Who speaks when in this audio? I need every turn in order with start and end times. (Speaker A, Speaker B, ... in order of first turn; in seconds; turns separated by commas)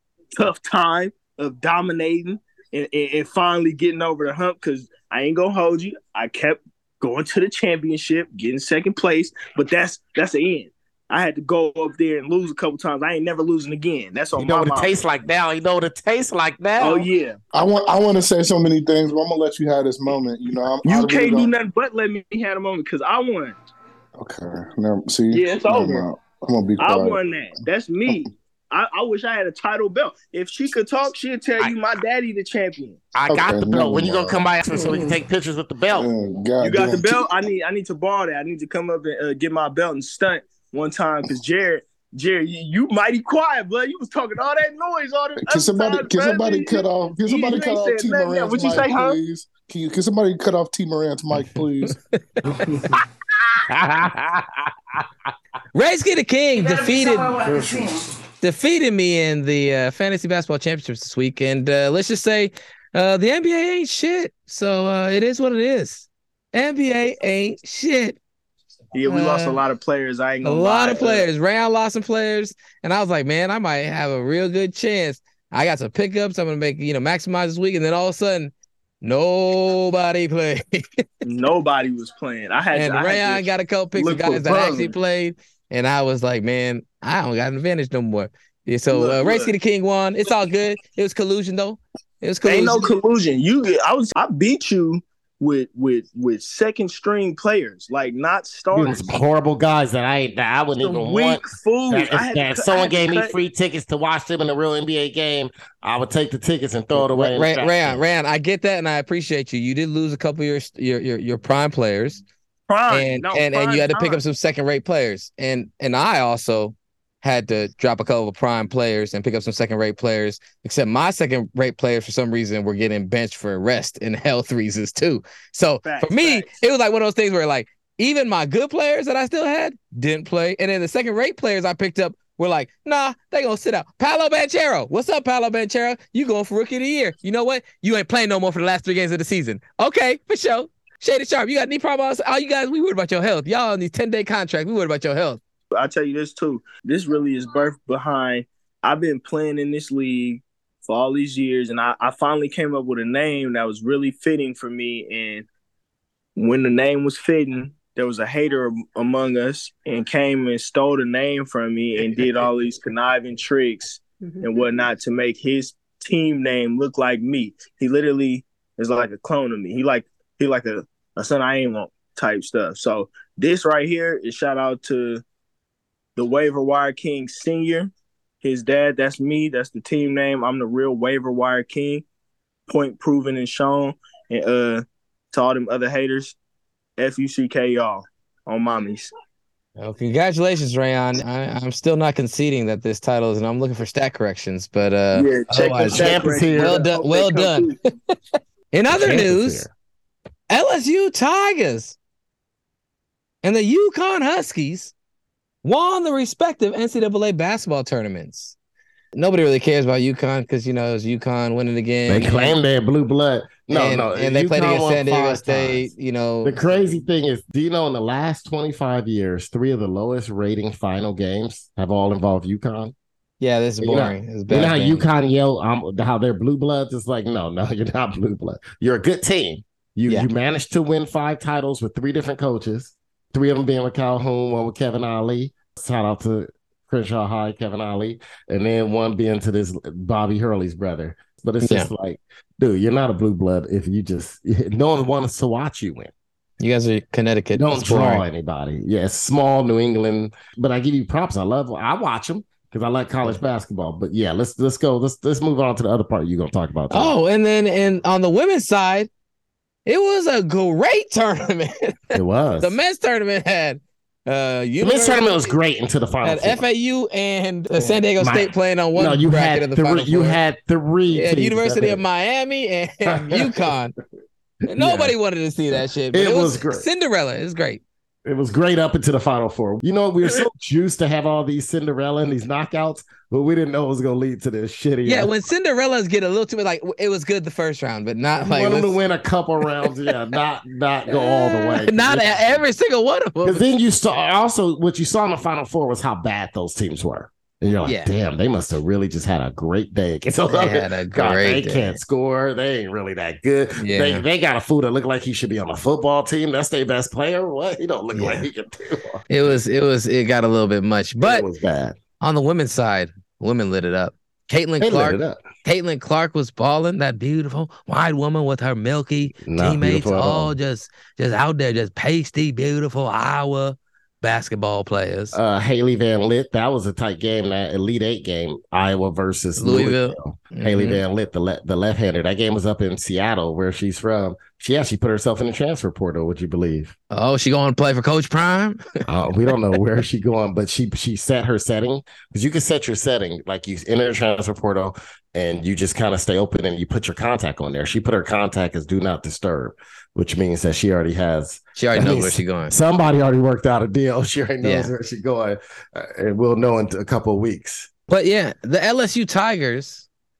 Speaker A: 0.4-14.9, Speaker B: 14.3-17.1, Speaker A: 16.8-17.4, Speaker C: 17.5-21.5, Speaker A: 20.8-23.6, Speaker C: 24.1-27.2, Speaker A: 25.3-26.0, Speaker A: 26.8-33.0, Speaker B: 33.1-36.1, Speaker C: 33.3-34.4, Speaker D: 34.7-35.1, Speaker C: 35.9-37.4, Speaker A: 36.6-49.2, Speaker C: 45.4-52.0, Speaker E: 51.9-52.2, Speaker D: 52.5-53.0, Speaker B: 53.7-54.7, Speaker E: 55.7-57.3, Speaker B: 56.6-57.6, Speaker D: 57.4-58.1, Speaker E: 58.4-68.2, Speaker A: 68.9-71.3, Speaker E: 69.0-69.6, Speaker E: 70.4-81.0, Speaker A: 81.2-84.9, Speaker E: 82.7-92.9, Speaker A: 88.9-89.5, Speaker A: 92.4-99.1, Speaker B: 98.7-108.0, Speaker A: 100.8-103.3, Speaker E: 106.9-112.2, Speaker A: 112.7-114.2, Speaker E: 112.9-145.4, Speaker D: 113.3-114.0, Speaker A: 125.8-126.5, Speaker A: 145.7-155.5, Speaker A: 156.4-175.2, Speaker A: 176.2-182.0, Speaker A: 182.7-186.3, Speaker A: 187.0-189.1, Speaker E: 189.8-198.1, Speaker A: 195.1-197.8, Speaker B: 195.9-196.8, Speaker E: 198.7-199.7, Speaker B: 198.9-199.7, Speaker E: 200.5-201.9, Speaker E: 203.4-204.9, Speaker E: 205.6-208.6, Speaker E: 209.1-212.6, Speaker B: 212.1-215.9, Speaker E: 213.7-216.7, Speaker B: 216.4-222.9, Speaker E: 223.4-225.1, Speaker B: 223.8-246.1, Speaker E: 241.6-241.9, Speaker E: 246.6-248.2, Speaker B: 247.6-257.1, Speaker E: 256.9-259.1, Speaker E: 259.9-265.5, Speaker B: 262.1-262.7, Speaker B: 264.8-266.6, Speaker E: 266.2-270.4, Speaker B: 267.8-272.0, Speaker E: 271.1-273.9, Speaker B: 273.1-273.7, Speaker E: 274.7-277.8, Speaker B: 274.7-275.1, Speaker B: 275.7-276.9, Speaker B: 278.2-285.3, Speaker E: 285.1-289.0, Speaker B: 288.4-292.6, Speaker E: 291.1-293.6, Speaker B: 293.4-309.2, Speaker E: 297.8-298.1, Speaker E: 300.5-302.0, Speaker E: 303.8-304.2, Speaker E: 308.1-308.5, Speaker E: 309.3-311.5, Speaker B: 311.2-312.0, Speaker E: 312.2-325.4, Speaker B: 314.8-315.4, Speaker B: 319.3-320.6, Speaker B: 325.3-336.9, Speaker E: 329.6-331.0, Speaker E: 337.1-339.0, Speaker B: 339.1-357.9, Speaker E: 351.8-352.7, Speaker E: 354.6-354.9, Speaker E: 358.1-360.1